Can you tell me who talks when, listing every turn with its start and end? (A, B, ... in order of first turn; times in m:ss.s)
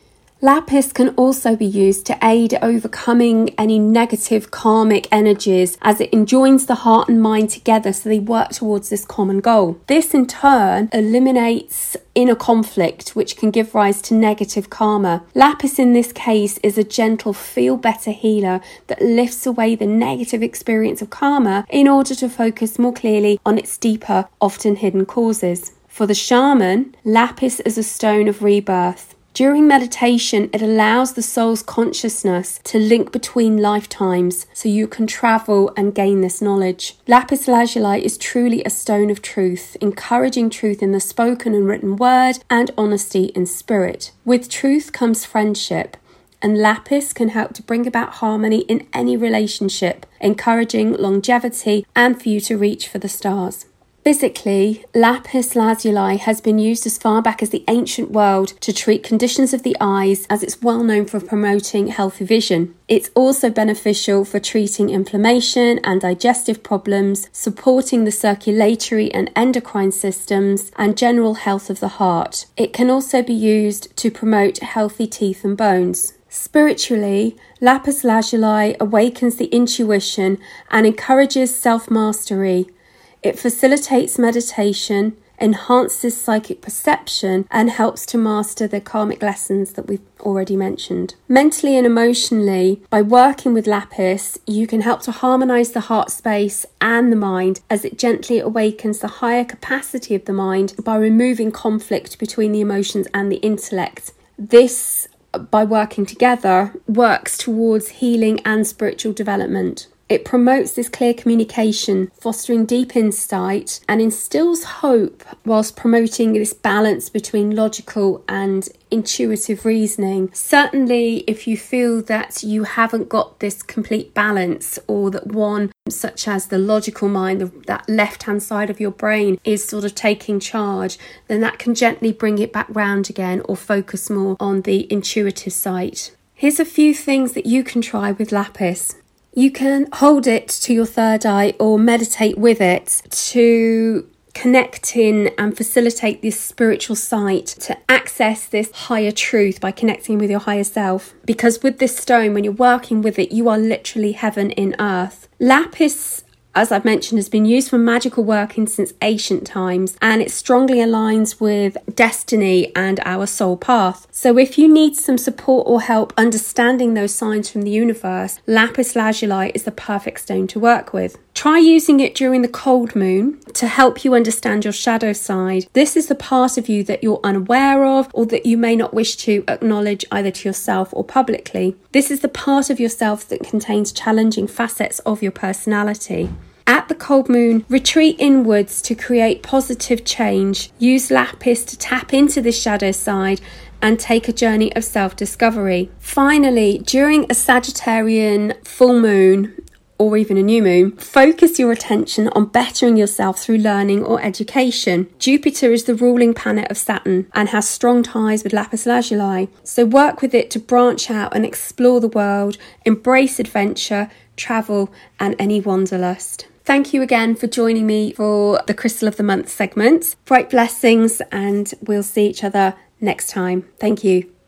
0:00.4-1:22.7 A
1:23.2-3:44.3 A